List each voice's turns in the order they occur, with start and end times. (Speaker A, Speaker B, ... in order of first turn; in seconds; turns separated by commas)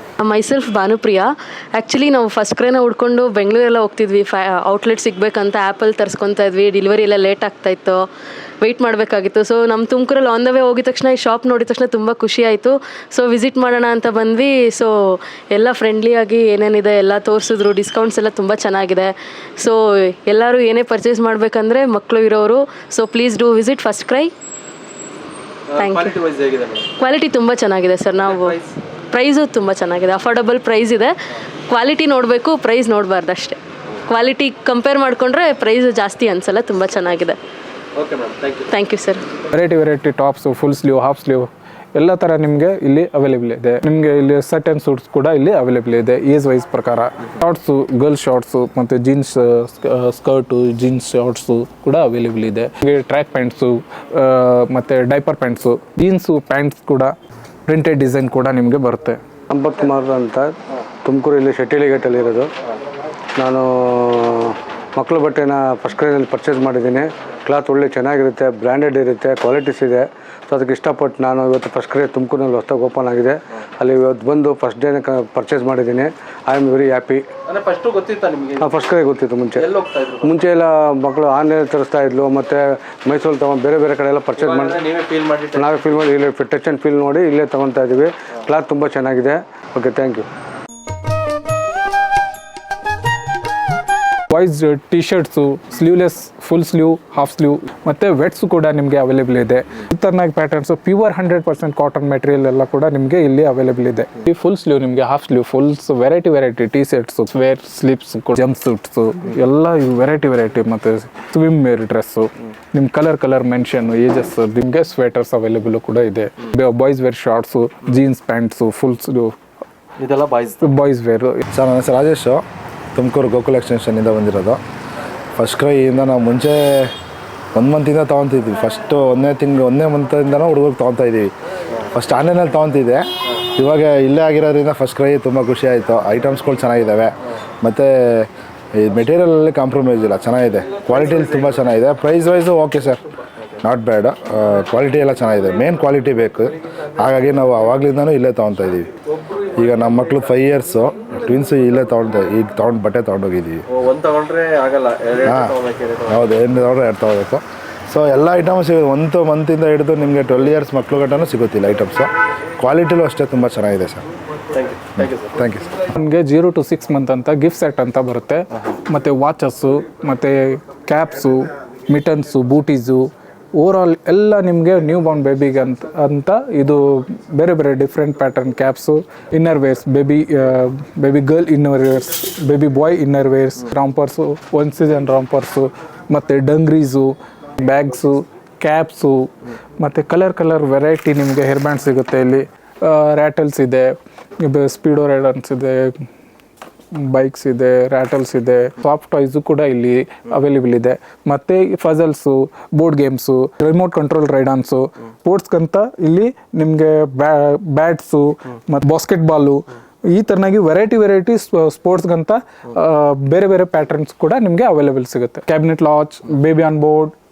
Speaker A: 0.2-8.1, Speaker A: 8.6-24.3, Speaker B: 25.7-26.9, Speaker A: 25.8-26.2, Speaker A: 27.0-28.6, Speaker B: 28.2-28.7, Speaker A: 29.1-31.1, Speaker A: 31.7-37.4, Speaker B: 38.0-38.7, Speaker A: 38.7-39.2, Speaker C: 39.5-57.1, Speaker C: 57.7-59.2, Speaker D: 59.5-62.5, Speaker D: 63.4-77.2, Speaker B: 77.5-78.9, Speaker D: 78.6-79.7, Speaker B: 79.5-80.5, Speaker D: 80.2-84.8, Speaker B: 84.4-86.1, Speaker D: 85.5-90.3, Speaker C: 94.3-119.4, Speaker B: 120.0-120.6, Speaker C: 120.6-121.5, Speaker E: 121.5-122.4, Speaker E: 123.0-124.6, Speaker E: 125.4-126.9, Speaker E: 127.5-131.3, Speaker E: 131.9-143.0, Speaker E: 143.6-148.9, Speaker E: 149.5-153.6, Speaker B: 153.7-156.2, Speaker E: 155.2-155.5, Speaker E: 156.1-164.1, Speaker B: 164.5-165.3, Speaker E: 165.3-165.8, Speaker C: 165.9-196.1, Speaker C: 196.9-217.2